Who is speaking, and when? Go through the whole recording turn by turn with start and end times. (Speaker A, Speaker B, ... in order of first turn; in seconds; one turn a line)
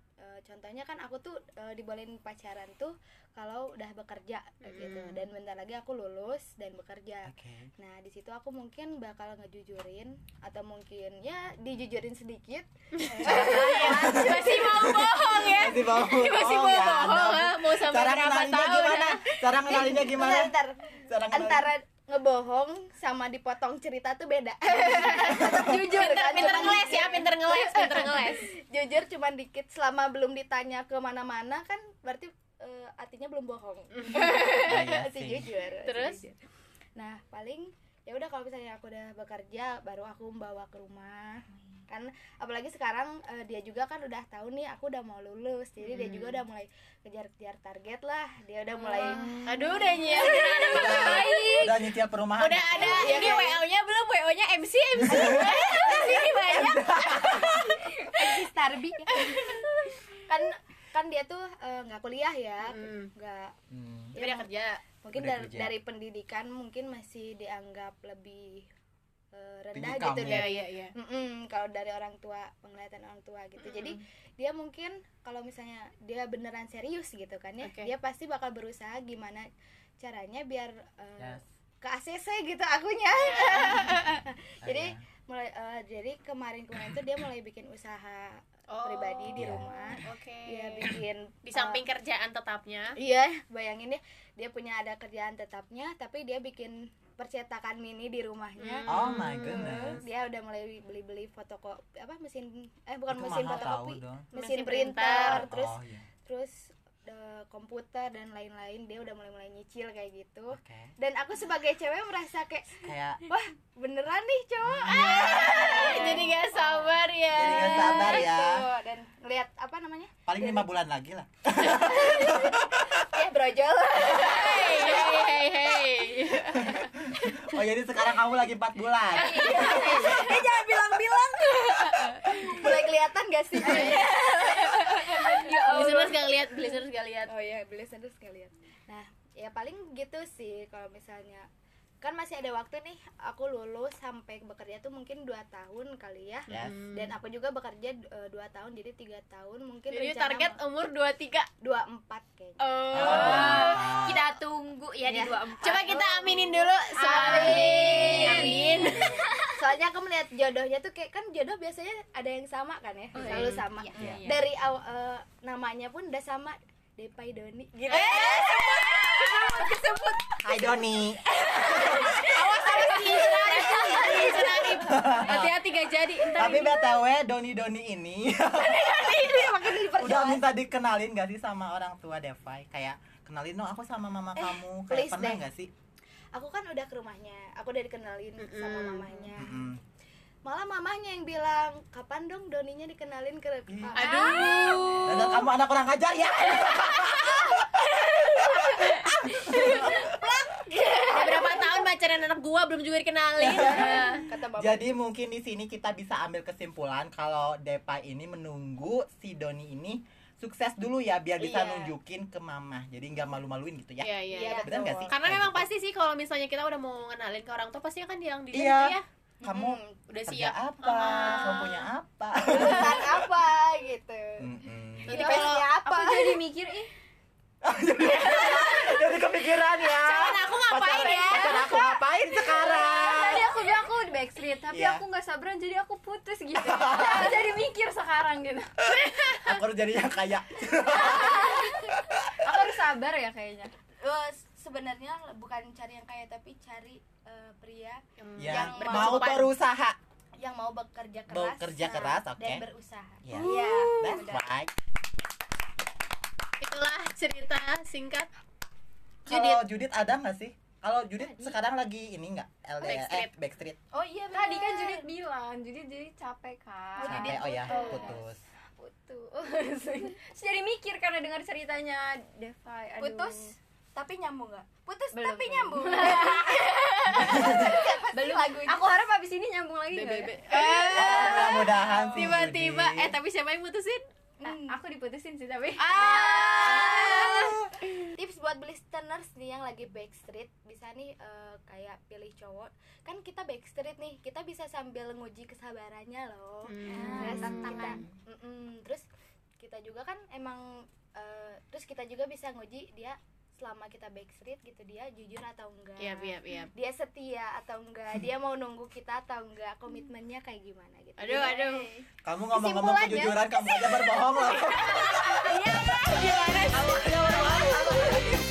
Speaker A: 0.2-15.7
Speaker B: 4.6-5.2
Speaker C: 7.2-7.7
Speaker B: 12.9-19.2
Speaker C: 13.2-20.5
Speaker A: 19.5-36.4
Speaker C: 21.1-21.7
Speaker B: 24.9-28.5
Speaker C: 25.3-25.9
Speaker B: 33.9-34.6
Speaker C: 34.6-35.5
Speaker B: 35.8-36.3
Speaker A: 37.0-51.0
Speaker B: 45.8-46.4
Speaker B: 48.8-51.7
Speaker D: 48.9-51.7
Speaker C: 50.6-53.4
Speaker B: 52.4-57.5
Speaker A: 52.7-53.6
Speaker C: 55.0-57.7
Speaker A: 55.6-56.5
Speaker A: 58.1-59.5
Speaker B: 59.1-59.6
Speaker A: 60.2-63.5
Speaker B: 62.6-63.1
Speaker C: 63.7-64.1
Speaker A: 64.1-64.5
Speaker B: 64.2-64.8
Speaker A: 65.0-68.7
Speaker C: 65.1-65.8
Speaker A: 69.3-79.5
Speaker C: 69.7-70.5
Speaker B: 70.2-70.9
Speaker B: 73.6-74.0
Speaker B: 77.6-77.9
Speaker A: 80.0-91.8
Speaker C: 81.2-81.4
Speaker B: 83.2-83.9
Speaker C: 84.6-85.0
Speaker B: 88.7-93.0
Speaker C: 89.3-89.7
Speaker A: 93.0-120.7
Speaker B: 98.6-100.0
Speaker C: 98.9-100.0
Speaker C: 103.1-104.3
Speaker B: 104.3-105.5
Speaker C: 105.2-106.0
Speaker C: 110.5-110.9
Speaker C: 112.8-113.2
Speaker C: 114.6-115.5
Speaker B: 114.9-118.3
Speaker C: 117.3-118.6
Speaker C: 120.3-123.0
Speaker A: 121.6-126.0
Speaker B: 124.1-126.9
Speaker C: 126.6-130.4
Speaker A: 129.1-141.5
Speaker D: 129.2-130.5
Speaker D: 133.6-136.2
Speaker B: 133.6-134.1
Speaker B: 135.6-137.3
Speaker A: 142.0-150.6
Speaker B: 146.5-147.2
Speaker C: 146.5-146.8
Speaker B: 149.9-151.5
Speaker A: 151.6-153.8
Speaker B: 152.6-153.9
Speaker C: 152.9-154.3
Speaker E: 153.1-155.9
Speaker A: 155.0-169.8
Speaker B: 155.6-159.2
Speaker E: 157.0-158.8
Speaker D: 158.1-158.7
Speaker D: 163.2-164.4
Speaker E: 163.2-164.3
Speaker B: 163.2-163.6
Speaker C: 164.0-164.3
Speaker B: 167.9-169.1
Speaker D: 168.1-169.9
Speaker E: 168.1-168.7
Speaker C: 170.4-172.3
Speaker A: 172.1-174.8
Speaker D: 172.2-174.4
Speaker B: 172.3-176.8
Speaker C: 174.7-175.7
Speaker C: 176.3-185.7
Speaker A: 178.6-180.4
Speaker A: 184.4-185.4
Speaker A: 186.3-189.7
Speaker B: 188.4-189.3
Speaker C: 189.4-189.8
Speaker A: 190.4-195.0
Speaker C: 193.7-194.0
Speaker B: 193.9-195.5
Speaker D: 194.2-194.7
Speaker C: 195.0-200.2
Speaker A: 199.4-201.9
Speaker B: 201.1-204.2
Speaker C: 203.4-215.7
Speaker A: 203.5-205.0
Speaker A: 211.4-211.9
Speaker B: 214.0-219.0
Speaker A: 214.3-215.1
Speaker C: 218.5-223.3
Speaker A: 219.4-220.0
Speaker B: 220.1-221.9
Speaker A: 221.1-221.7
Speaker A: 222.5-224.5
Speaker C: 224.4-225.3
Speaker B: 225.0-225.7
Speaker A: 225.0-226.4
Speaker D: 225.2-226.9
Speaker C: 227.6-233.6
Speaker D: 228.3-229.0
Speaker B: 230.0-231.8
Speaker D: 232.4-238.8
Speaker C: 234.7-235.0
Speaker C: 236.6-237.4
Speaker C: 239.4-242.7
Speaker D: 240.9-243.7
Speaker A: 244.0-249.5
Speaker B: 248.2-249.5
Speaker C: 248.4-250.0
Speaker A: 250.4-254.4
Speaker C: 251.3-252.7
Speaker C: 253.2-254.7
Speaker D: 253.4-254.1
Speaker B: 256.6-258.3
Speaker C: 259.2-263.8
Speaker B: 259.3-259.6
Speaker B: 262.8-263.3
Speaker A: 263.9-265.1
Speaker D: 264.3-268.2
Speaker A: 266.9-268.2
Speaker C: 267.0-268.4
Speaker D: 268.8-273.6
Speaker A: 273.0-279.0
Speaker D: 275.1-282.2
Speaker C: 277.1-277.7
Speaker B: 279.9-284.0
Speaker A: 280.9-281.2
Speaker C: 280.9-283.1
Speaker A: 284.4-284.8
Speaker D: 284.4-287.5
Speaker B: 285.8-287.4
Speaker A: 285.9-287.6
Speaker A: 288.1-299.1
Speaker B: 296.6-298.1
Speaker E: 296.9-298.0
Speaker D: 296.9-297.8
Speaker A: 299.6-311.9
Speaker B: 306.0-306.7
Speaker B: 311.2-311.9
Speaker C: 312.2-315.5
Speaker B: 315.6-317.1
Speaker D: 316.1-316.8
Speaker A: 316.3-316.6
Speaker C: 316.7-318.4